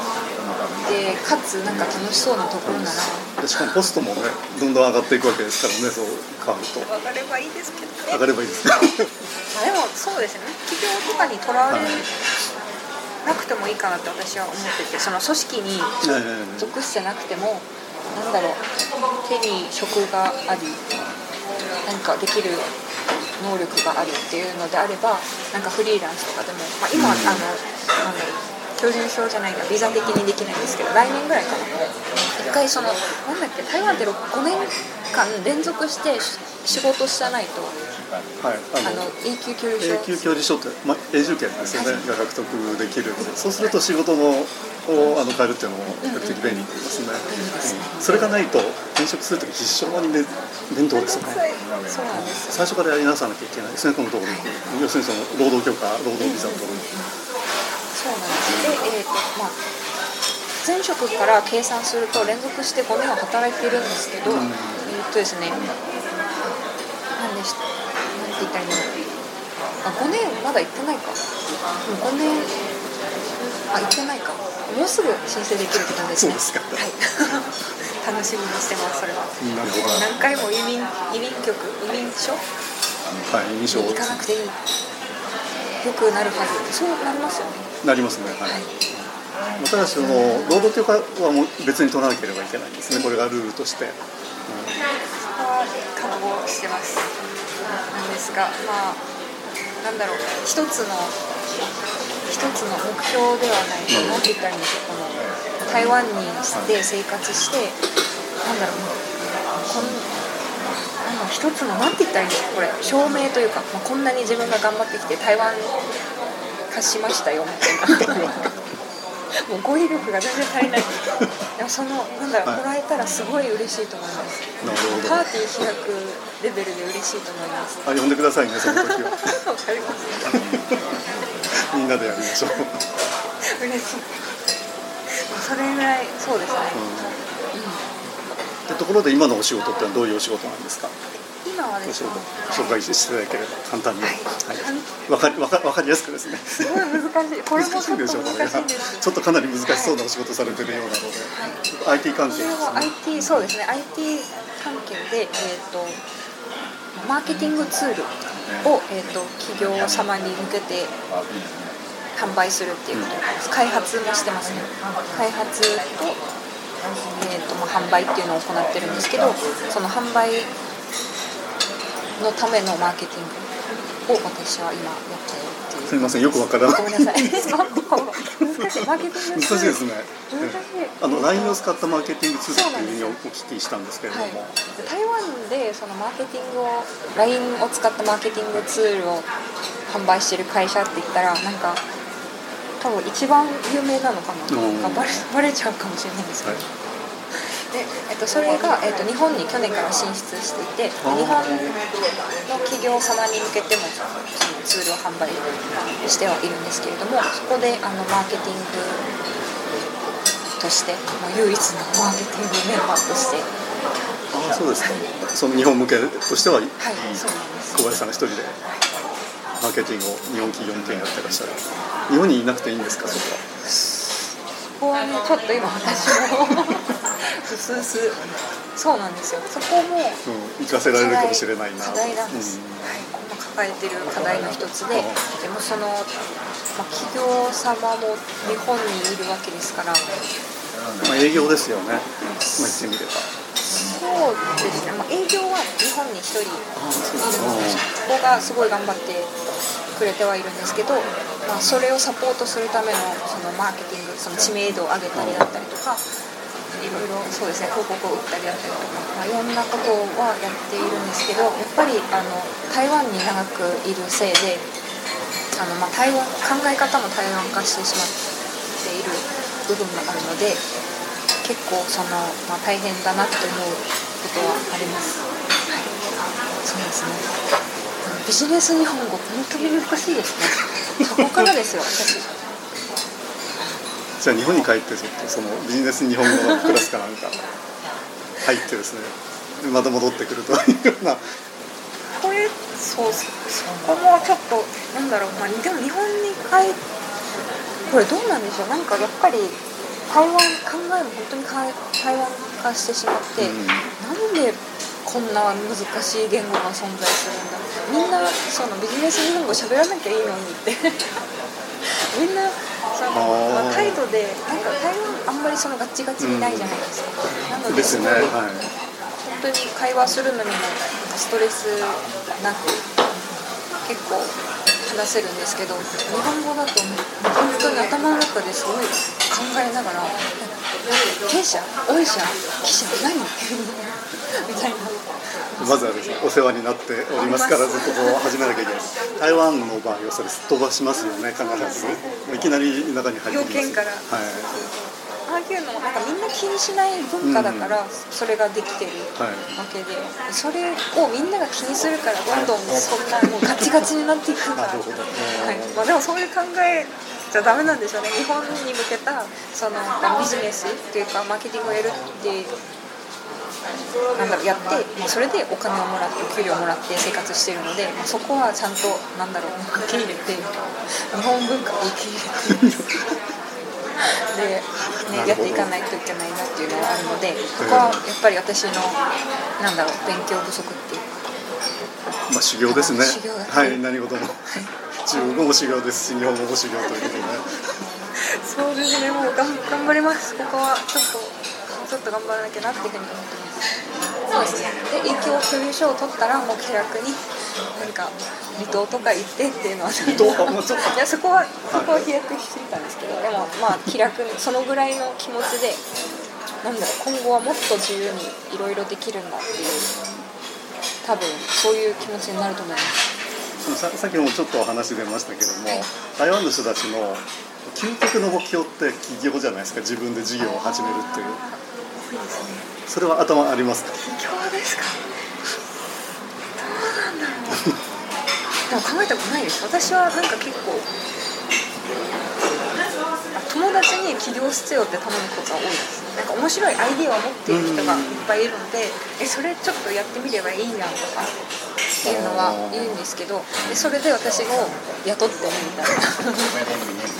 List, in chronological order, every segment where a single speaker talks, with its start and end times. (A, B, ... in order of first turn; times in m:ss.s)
0:00.8-0:03.3 A
0:02.6-0:06.9 B
0:06.9-0:08.2 A
0:08.1-0:09.2 B
0:09.5-0:12.1 A
0:11.7-0:12.1 B
0:13.2-0:18.6 A
0:16.0-0:16.7 B
0:19.2-0:20.8 A
0:21.8-0:22.7 A
0:23.4-0:37.8 A
0:26.9-0:27.4 B
0:38.4-0:39.1 B
0:38.8-0:40.3 A
0:39.8-0:51.4 B
0:41.8-0:42.1 A
0:46.0-0:46.7 A
0:47.3-0:48.3 A
0:50.9-0:52.8 A
0:52.1-0:56.9 B
0:56.2-0:57.1 A
0:57.9-0:59.6 A
0:58.4-0:58.8 B
1:00.6-1:05.6 A
1:04.2-1:04.9 B
1:07.2-1:08.9 A
1:09.8-1:11.2 A
1:11.8-1:12.5 A
1:13.7-1:22.4 A
1:15.7-1:16.8 B
1:19.4-1:20.1 B
1:23.3-1:24.3 B
1:23.7-1:24.6 A
1:25.8-1:27.7 A
1:27.8-1:34.8 B
1:30.0-1:30.7 A
1:35.3-1:37.1 A
1:37.9-1:39.0 A
1:39.8-1:41.2 A
1:42.3-1:47.8 A
1:43.9-1:44.3 B
1:48.4-1:50.1 A
1:51.0-1:55.8 A
1:56.7-1:58.5 A
1:57.9-1:58.5 B
1:59.4-2:01.0 A
2:01.6-2:07.8 A
2:04.6-2:05.2 B
2:07.8-2:09.4 B
2:08.6-2:10.3 A
2:10.3-2:10.8 B
2:11.7-2:12.8 B
2:13.4-2:14.2 A
2:15.1-2:16.9 A
2:16.7-2:17.2 B
2:17.5-2:17.8 A
2:18.7-2:20.9 B
2:21.4-2:22.8 A
2:21.8-2:27.0 B
2:24.0-2:24.9 A
2:26.5-2:29.1 A
2:27.6-2:33.4 B
2:29.6-2:30.0 A
2:31.3-2:31.6 A
2:32.3-2:36.0 A
2:36.9-2:40.9 A
2:42.1-2:46.2 A
2:47.1-2:50.5 A
2:52.2-2:53.5 A
2:54.0-3:01.6 A
2:55.9-3:04.6 B
3:02.5-3:03.2 A
3:04.1-3:09.3 A
3:09.9-3:11.8 A
3:12.8-3:16.7 A
3:14.5-3:15.2 B
3:17.3-3:21.8 A
3:21.0-3:21.7 B
3:22.4-3:25.4 A
3:26.0-3:29.0 A
3:30.6-3:33.5 A
3:34.3-3:38.6 B
3:36.8-3:37.9 A
3:39.6-3:43.4 B
3:43.6-3:48.2 A
3:48.7-3:50.2 A
3:50.2-3:52.9 B
3:50.9-3:56.1 A
3:54.9-3:55.2 B
3:56.7-4:00.0 A
4:01.0-4:03.3 B
4:02.2-4:02.8 A
4:03.6-4:06.7 A
4:06.8-4:07.8 B
4:07.2-4:09.3 A
4:09.9-4:16.0 A
4:15.1-4:15.5 B
4:16.8-4:24.7 A
4:25.5-4:28.2 A
4:28.8-4:30.7 A
4:31.4-4:35.9 A
4:36.6-4:37.3 A
4:38.0-4:42.3 A
4:41.2-4:41.5 B
4:44.2-4:47.4 B
4:48.4-4:51.2 B
4:52.1-4:56.8 A
4:57.9-5:11.2 A
5:03.4-5:03.9 B
5:11.8-5:18.4 A
5:13.1-5:14.0 B
5:16.2-5:16.8 B
5:17.7-5:18.7 B
5:19.2-5:22.8 A
5:23.8-5:30.6 A
5:31.2-5:36.2 A
5:35.6-5:44.5 B
5:37.1-5:38.2 A
5:40.9-5:42.2 A
5:43.3-6:02.5 A
5:47.2-5:47.8 B
5:49.2-5:49.5 B
5:54.5-5:55.8 B
6:04.2-6:12.8 A
6:14.3-6:19.0 A
6:15.1-6:15.7 B
6:17.6-6:18.0 B
6:19.6-6:21.1 A
6:22.3-6:27.4 B
6:22.7-6:23.9 A
6:24.4-6:25.4 A
6:28.2-6:33.7 A
6:34.3-6:45.8 A
6:40.0-6:41.0 B
6:41.7-6:42.1 B
6:46.6-6:49.9 A
6:51.0-6:53.0 A
6:53.6-7:01.4 B
7:00.4-7:02.7 A
7:02.9-7:04.0 B
7:04.0-7:05.0 A
7:06.6-7:07.7 A
7:08.7-7:10.9 A
7:13.3-7:21.3 A
7:17.5-7:18.2 B
7:22.0-7:23.0 B
7:22.0-7:26.6 A